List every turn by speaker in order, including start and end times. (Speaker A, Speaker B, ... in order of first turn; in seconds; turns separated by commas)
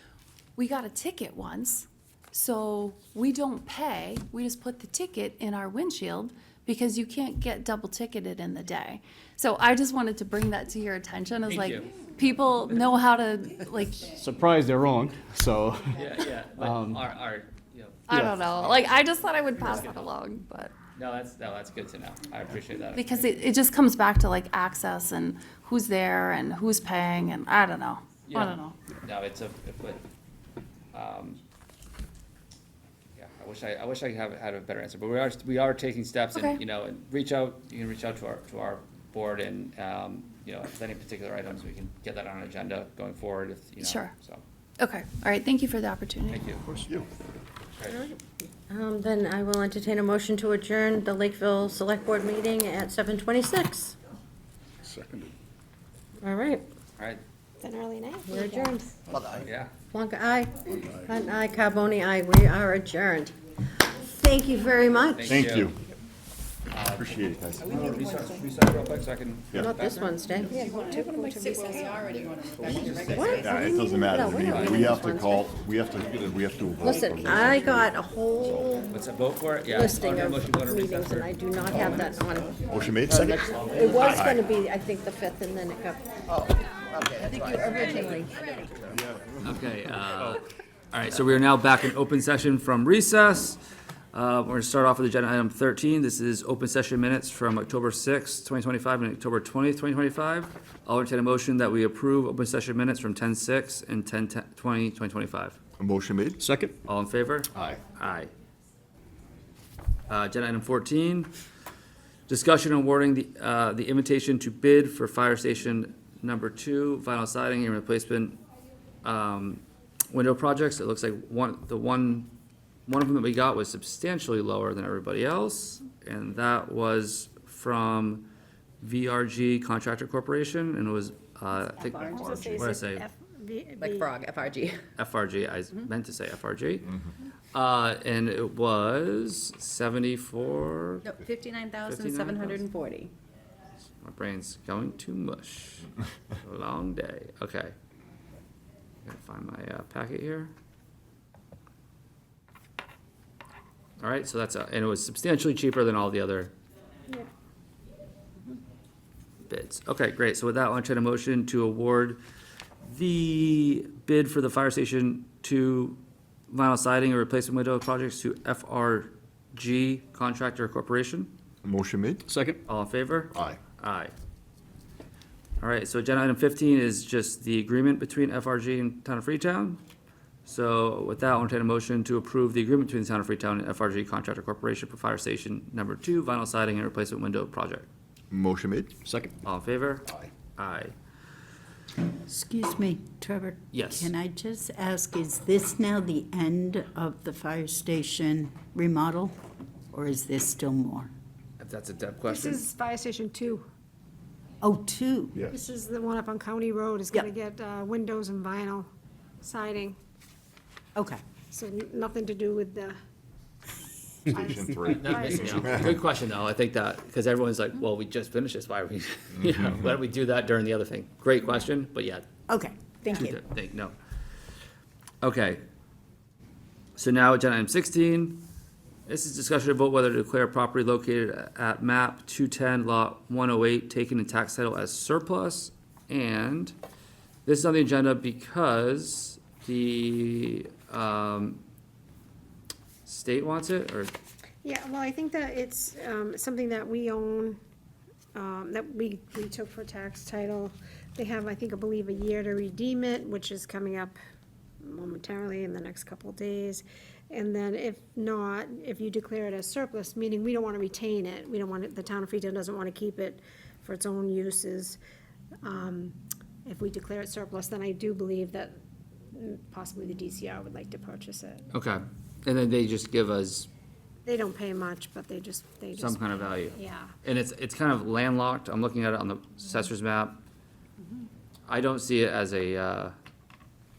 Speaker A: 0.6-14.1, Speaker B: 11.5-11.9, Speaker C: 14.1-16.0, Speaker B: 15.9-18.0, Speaker C: 16.6-17.0, Speaker A: 18.1-20.7, Speaker C: 18.1-18.4, Speaker B: 19.7-20.1, Speaker B: 20.9-23.2, Speaker A: 22.9-28.8, Speaker B: 28.3-30.0, Speaker B: 30.9-31.4, Speaker B: 33.2-44.4, Speaker A: 36.4-36.6, Speaker A: 43.8-44.1, Speaker A: 44.8-46.5, Speaker B: 46.3-46.6, Speaker D: 46.7-47.1, Speaker B: 47.8-48.1, Speaker E: 47.9-54.0, Speaker C: 54.9-55.3, Speaker E: 56.2-56.6, Speaker F: 57.6-58.8, Speaker E: 58.3-58.9, Speaker B: 59.4-59.7, Speaker E: 59.9-63.4, Speaker E: 64.0-65.4, Speaker B: 65.1-65.7, Speaker D: 65.3-65.8, Speaker B: 66.7-70.1, Speaker D: 67.0-67.7, Speaker F: 67.8-68.4, Speaker E: 69.6-70.8, Speaker F: 70.5-72.0, Speaker G: 72.0-73.5, Speaker E: 72.8-75.5, Speaker D: 72.9-78.8, Speaker B: 74.4-74.9, Speaker E: 76.8-78.9, Speaker B: 78.9-82.2, Speaker E: 79.7-86.4, Speaker D: 82.7-84.4, Speaker B: 83.5-84.4, Speaker E: 87.0-88.4, Speaker D: 88.9-89.6, Speaker B: 89.4-93.6, Speaker B: 94.1-105.6, Speaker D: 105.8-106.4, Speaker C: 106.4-106.8, Speaker B: 106.8-108.3, Speaker D: 107.5-107.9, Speaker B: 110.1-111.3, Speaker B: 112.3-118.4, Speaker B: 119.0-122.3, Speaker B: 122.9-128.3, Speaker B: 128.8-133.1, Speaker F: 132.1-134.1, Speaker G: 133.8-134.8, Speaker B: 135.0-137.0, Speaker B: 137.5-141.1, Speaker G: 141.1-143.1, Speaker B: 141.8-142.7, Speaker B: 144.0-145.9, Speaker B: 146.4-147.8, Speaker B: 149.1-150.5, Speaker B: 154.0-156.5, Speaker B: 159.5-162.2, Speaker B: 162.8-171.3, Speaker D: 171.6-172.2, Speaker C: 172.3-172.6, Speaker B: 172.7-174.1, Speaker D: 173.3-173.6, Speaker B: 175.6-179.8, Speaker B: 180.5-187.9, Speaker D: 188.3-189.0, Speaker C: 189.1-189.3, Speaker B: 189.4-190.9, Speaker H: 192.3-199.3, Speaker B: 193.7-194.1, Speaker H: 199.9-201.1, Speaker B: 201.6-202.6, Speaker F: 202.3-203.7, Speaker H: 204.6-205.4, Speaker F: 205.4-208.9, Speaker F: 209.4-210.0, Speaker H: 211.0-211.2, Speaker F: 211.5-213.0, Speaker F: 214.3-215.7, Speaker D: 214.4-216.0, Speaker B: 214.9-222.3, Speaker H: 222.5-223.4, Speaker B: 223.1-223.9, Speaker B: 225.2-225.6, Speaker B: 227.0-228.4, Speaker B: 229.1-236.7, Speaker B: 237.5-241.6, Speaker B: 243.1-244.1, Speaker F: 244.6-247.6, Speaker F: 248.3-254.2, Speaker F: 254.8-265.0, Speaker F: 265.6-268.8, Speaker F: 269.3-271.7, Speaker B: 271.7-273.7, Speaker F: 274.3-277.1, Speaker B: 275.9-280.4, Speaker B: 281.7-283.1